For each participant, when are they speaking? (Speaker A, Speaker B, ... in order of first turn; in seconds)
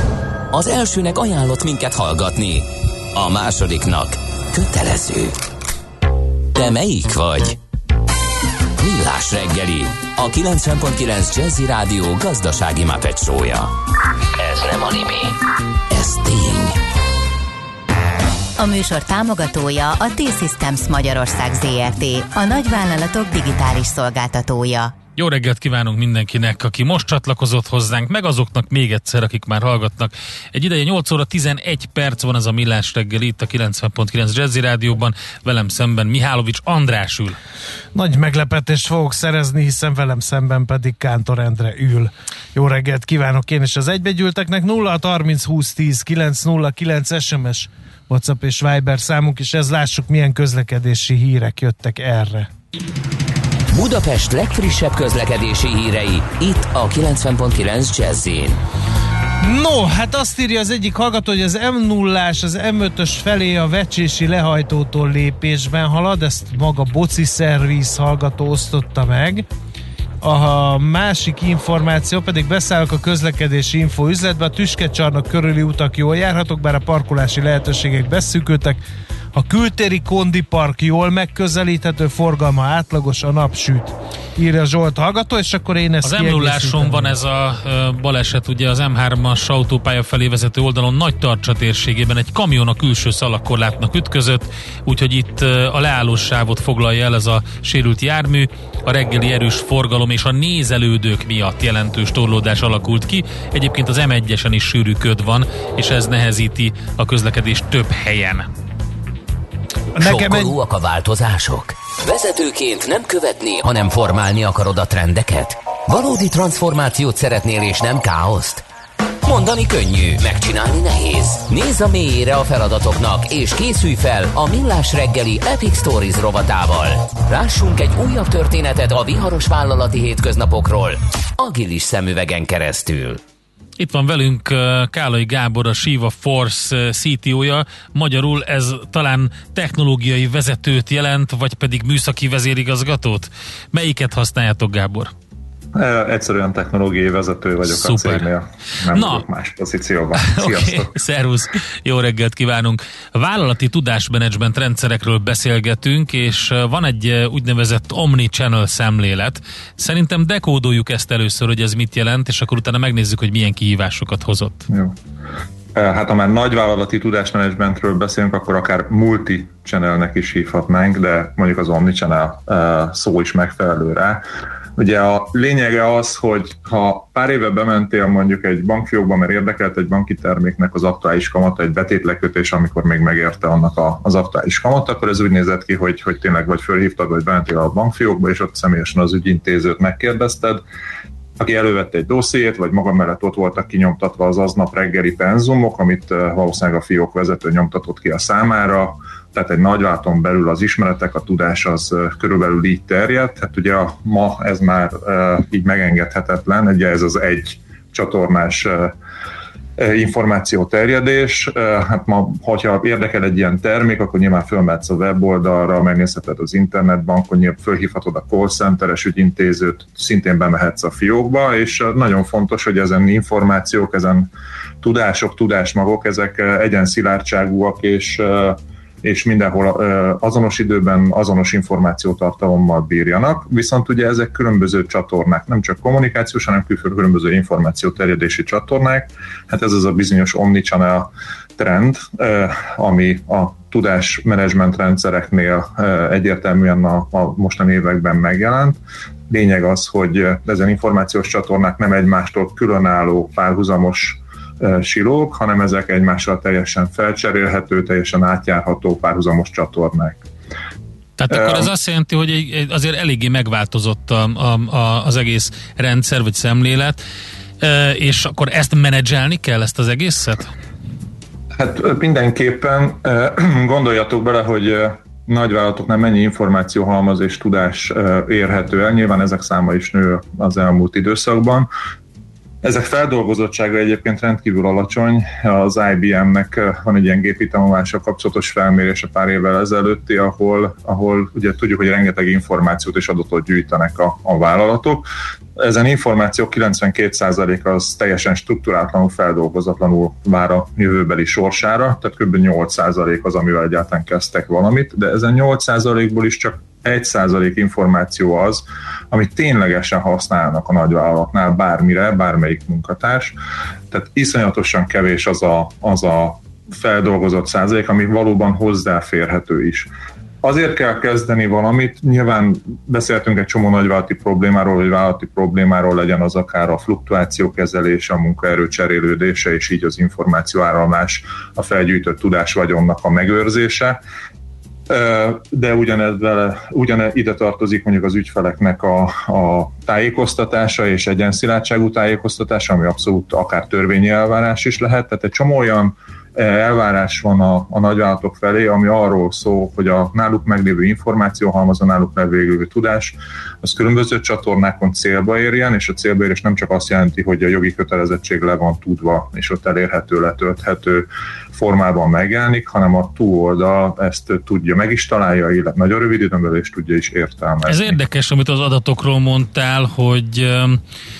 Speaker A: 0.5-5.4, 6.5-7.6, 8.8-13.7, 14.4-15.4, 15.9-16.8, 53.7-58.6, 110.0-118.7, 119.2-133.2
Speaker B: 18.6-24.9
Speaker C: 25.2-37.4, 86.0-108.5, 133.8-145.1, 147.7-148.3, 148.9-149.2, 150.2-164.7, 261.2-267.0, 267.6-270.5, 367.7-370.8
Speaker D: 38.0-52.5, 59.4-69.5, 70.2-78.8, 79.3-87.2, 110.0-110.5
Speaker E: 145.7-150.9, 164.7-165.0, 165.7-174.2, 174.8-190.6, 191.4-208.9, 209.8-224.3, 224.8-260.3, 261.3-261.7, 271.6-281.7, 282.6-313.4, 313.9-319.9, 320.4-334.0, 334.9-368.0